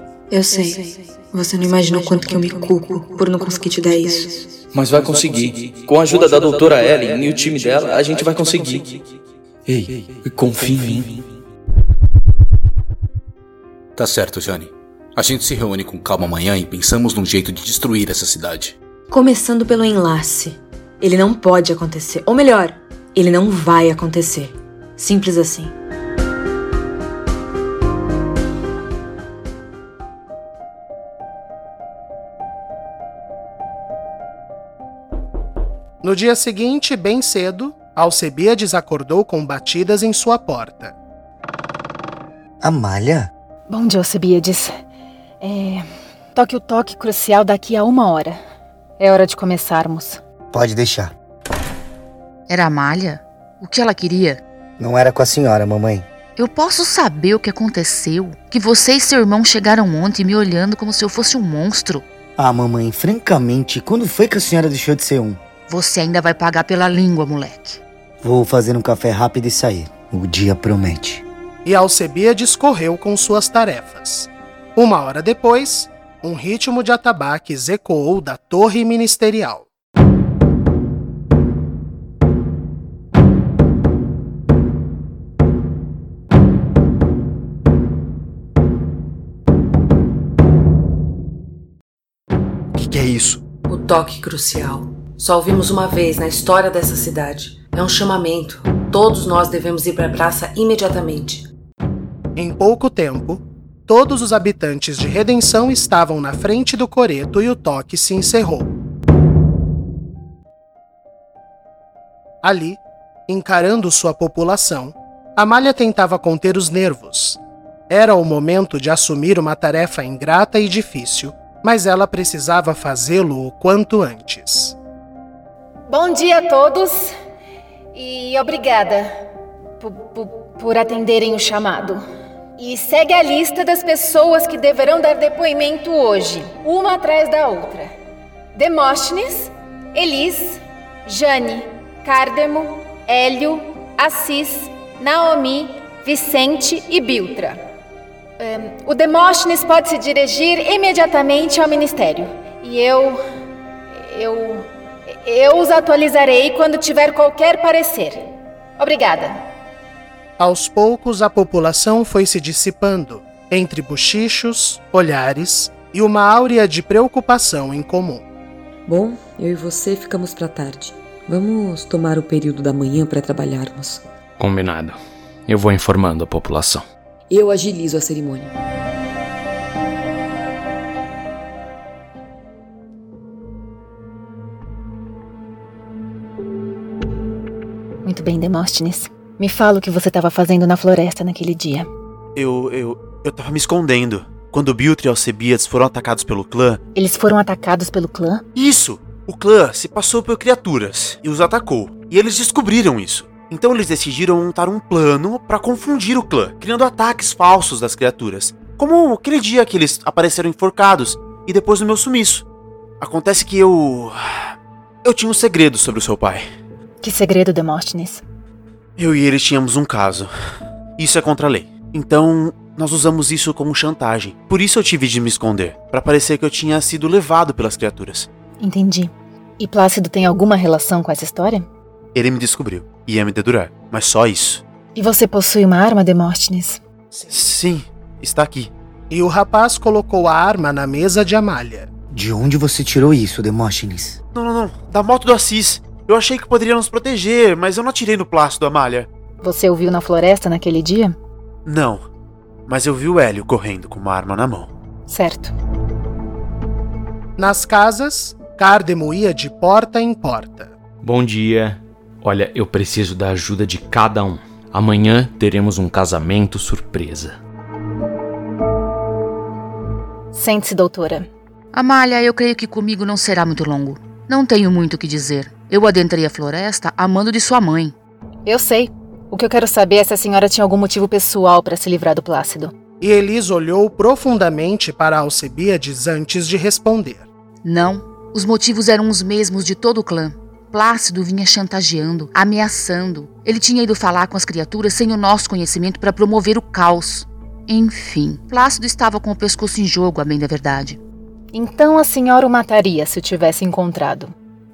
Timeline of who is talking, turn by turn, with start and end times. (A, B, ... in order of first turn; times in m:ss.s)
0:00.3-0:04.5 A
0:04.7-0:09.0 B
0:09.7-0:11.2 B
0:14.0-0:18.8 C
0:19.1-0:25.7 A
0:36.0-0:40.9 D
0:42.6-0:43.3 E
0:43.7-0:44.8 F
0:45.4-0:48.4 F
0:49.0-0:50.2 F
0:50.5-0:51.1 E
0:52.5-0:54.4 G
0:54.8-0:56.0 E
0:56.4-1:02.0 G
1:02.4-1:05.4 E
1:05.7-1:07.8 G
1:08.2-1:11.2 E
1:11.6-1:19.6 D
1:32.7-1:33.4 H
1:33.7-1:41.5 I
1:42.4-1:48.7 D
1:52.4-1:57.4 D
1:57.9-2:04.7 D
2:05.9-2:07.2 F
2:07.9-2:09.2 F
2:09.8-2:12.0 F
2:12.6-2:17.9 F
2:18.5-2:27.6 F
2:28.4-2:33.2 F
2:33.9-2:38.3 F
2:38.8-2:39.4 F
2:40.4-2:48.2 D
2:48.8-2:54.0 J
2:54.4-2:56.8 K
2:57.3-2:58.5 J
3:08.0-3:11.9 F
3:12.4-3:16.8 H
3:16.9-3:18.4 F
3:18.5-3:32.5 H
3:33.0-3:36.4 H
3:37.0-3:38.2 F
3:39.0-3:40.3 H
3:41.0-3:48.3 H
3:48.6-3:51.7 F
3:52.1-3:54.6 H
3:54.9-3:56.8 F
3:57.2-3:58.7 H
3:59.1-4:01.9 D
4:02.1-4:04.2 E
4:04.3-4:09.1 H
4:09.4-4:11.2 F
4:11.6-4:12.0 H
4:12.7-4:14.7 H
4:15.1-4:15.5 F
4:17.4-4:20.7 D
4:21.0-4:27.4 K
4:30.3-4:31.3 F
4:31.7-4:37.9 G
4:38.4-4:42.7 F
4:43.0-4:47.2 D
4:47.6-5:01.0 G
5:01.5-5:04.3 F